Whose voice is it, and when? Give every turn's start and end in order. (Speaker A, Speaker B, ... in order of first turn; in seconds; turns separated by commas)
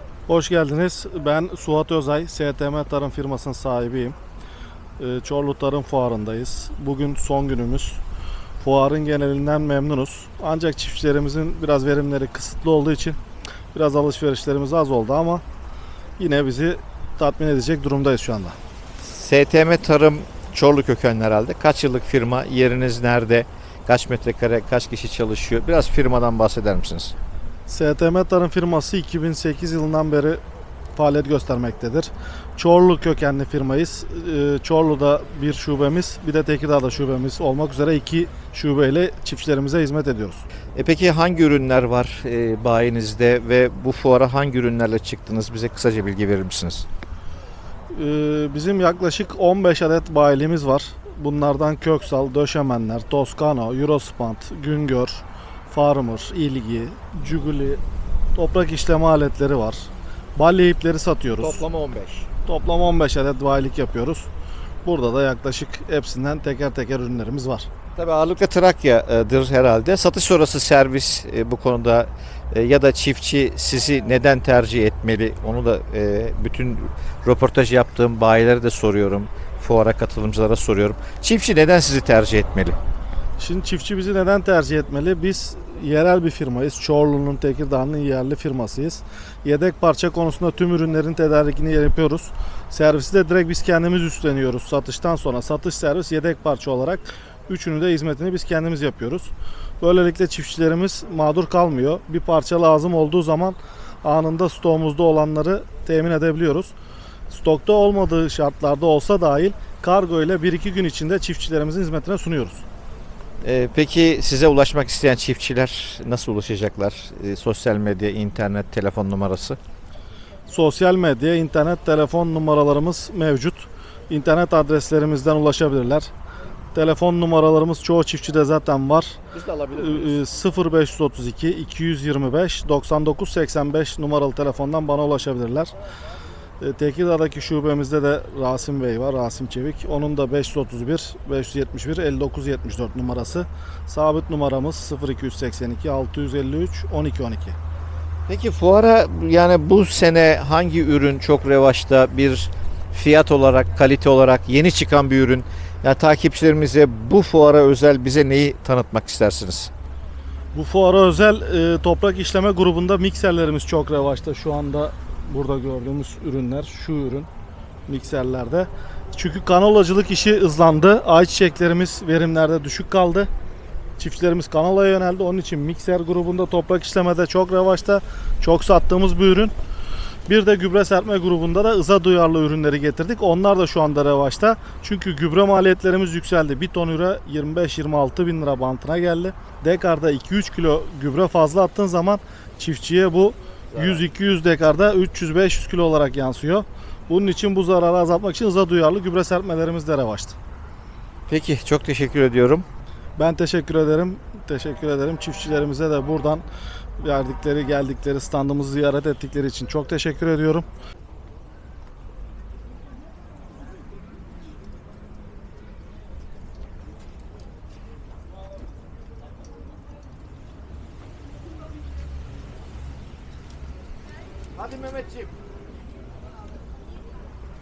Speaker A: 0.3-4.2, Speaker A: 5.0-8.0, Speaker A: 8.6-13.2, Speaker A: 13.7-15.4, Speaker A: 16.2-18.6, Speaker B: 19.0-27.1, Speaker A: 27.7-30.4, Speaker A: 30.9-40.4, Speaker B: 40.7-46.9, Speaker A: 47.9-57.8, Speaker A: 58.3-61.6, Speaker B: 61.4-62.3, Speaker A: 62.5-64.3, Speaker A: 64.8-67.7, Speaker B: 68.0-82.8, Speaker A: 83.4-106.7, Speaker A: 107.3-112.6, Speaker B: 113.4-119.6, Speaker A: 120.5-126.1, Speaker A: 126.7-129.2, Speaker B: 129.3-130.2, Speaker A: 129.8-135.7, Speaker A: 136.6-147.6, Speaker B: 148.3-159.7, Speaker A: 160.5-167.3, Speaker A: 167.9-173.3, Speaker A: 174.0-179.5, Speaker A: 180.3-200.3, Speaker B: 193.7-194.0, Speaker B: 201.3-202.7, Speaker A: 203.2-206.4, Speaker A: 207.0-210.7, Speaker B: 224.6-225.3